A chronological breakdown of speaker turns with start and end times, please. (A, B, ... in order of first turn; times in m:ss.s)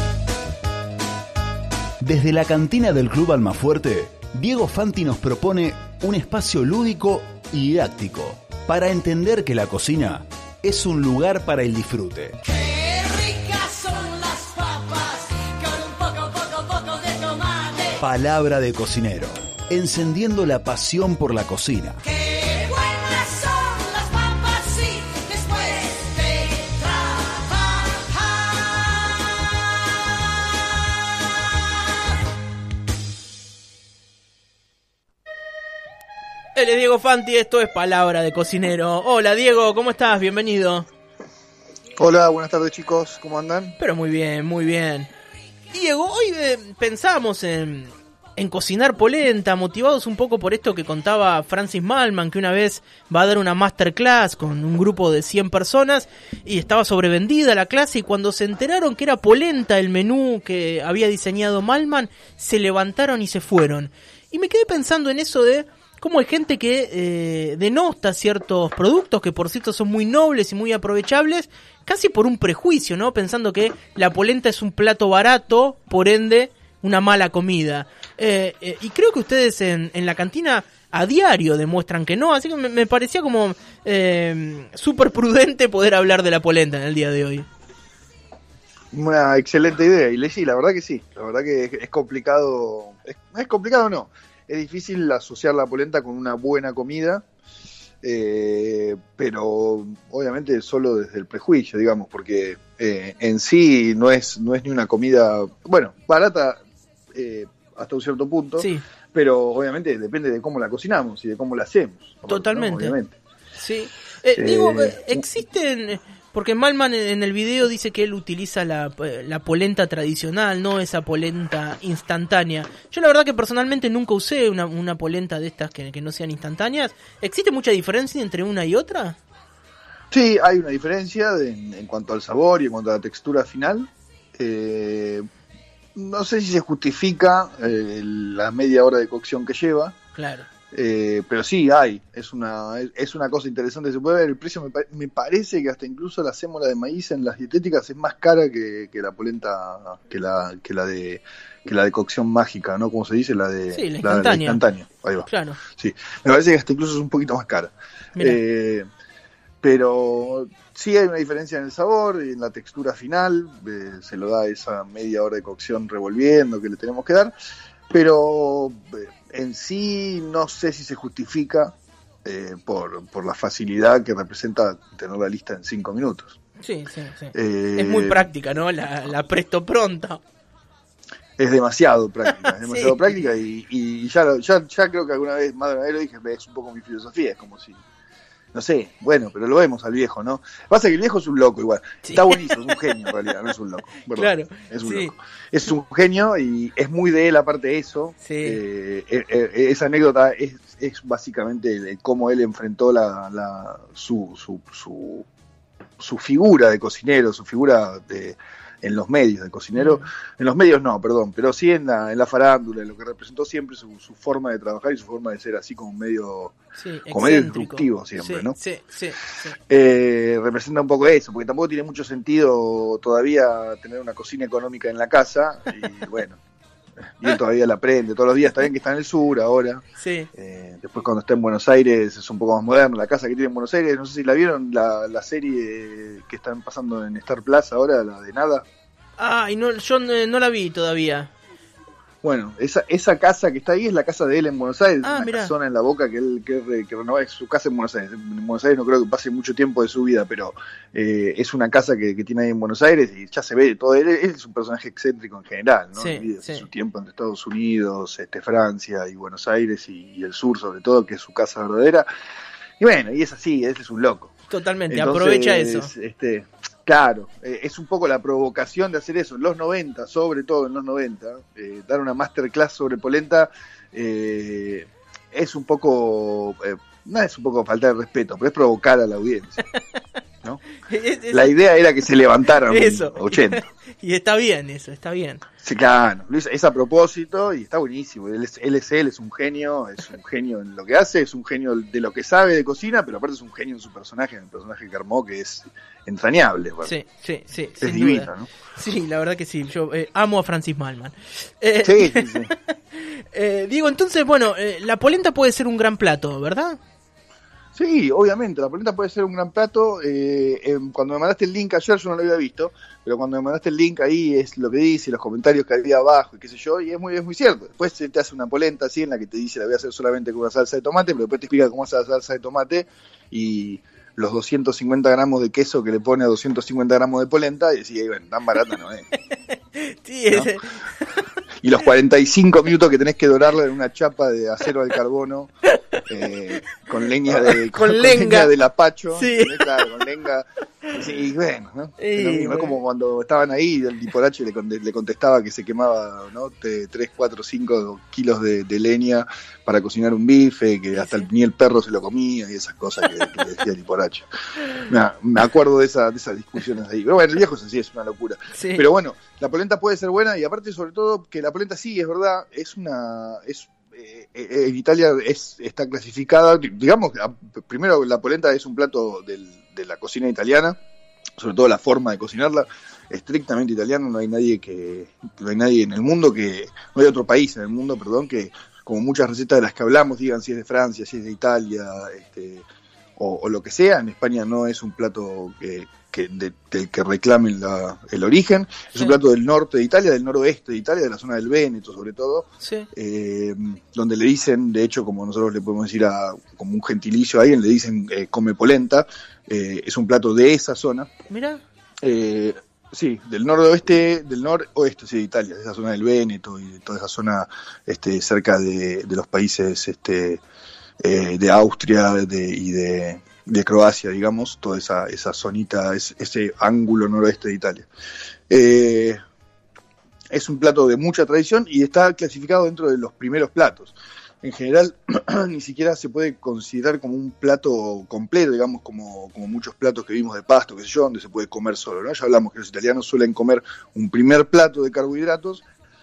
0:02.0-0:12.4 A
0:12.4-0:18.0 B
0:18.0-0:22.0 A
0:22.0-0:29.3 B
0:36.6-0:40.9 C
0:42.0-0:43.8 D
0:43.8-0:45.1 C
0:45.7-1:27.5 C
1:28.9-1:37.2 D
1:38.0-1:46.6 D
1:47.1-1:53.2 D
1:52.3-1:53.0 C
1:53.6-2:09.2 C
1:54.4-1:55.2 D
2:10.1-2:15.2 D
2:16.0-2:20.0 D
2:20.2-2:20.5 C
2:20.7-2:38.9 D
2:33.7-2:34.6 C
2:35.3-2:35.6 C
2:39.6-2:47.3 D
2:47.9-2:51.7 D
2:52.2-2:56.4 D
2:56.6-3:00.2 C
2:57.3-2:58.3 D
3:01.4-3:07.8 D
3:02.6-3:03.2 C
3:08.5-3:25.3 D
3:12.0-3:12.8 C
3:14.1-3:15.1 C
3:18.2-3:18.6 C
3:26.0-3:36.6 D
3:29.8-3:30.1 C
3:36.8-3:39.6 C
3:37.1-3:38.6 D
3:39.7-3:46.4 D
3:47.2-3:49.8 D
3:50.0-3:50.3 C
3:50.3-3:58.6 D
3:59.2-4:01.3 C
4:02.2-4:22.1 D
4:05.0-4:05.5 C
4:16.0-4:16.6 C
4:22.8-4:24.4 D
4:24.5-4:25.9 C
4:24.9-4:39.6 D
4:40.8-4:41.5 C
4:41.3-4:43.7 D
4:42.5-4:45.4 C
4:45.6-4:56.9 D
4:56.8-5:06.8 C
4:57.8-4:58.5 D
5:01.8-5:02.5 D
5:07.8-5:29.1 D
5:29.8-5:31.2 C
5:31.6-5:35.5 D
5:36.1-6:10.8 D
5:37.3-5:38.5 C
5:39.1-5:39.8 C
5:42.0-5:42.8 C
5:50.9-5:51.3 C
5:58.5-5:58.8 C
6:11.4-6:22.6 D
6:23.2-6:41.1 D
6:28.9-6:29.2 C
6:32.6-6:32.9 C
6:41.3-6:41.6 C
6:42.0-6:50.4 D
6:51.0-6:57.9 D
6:58.5-6:59.2 D
7:00.3-7:15.6 D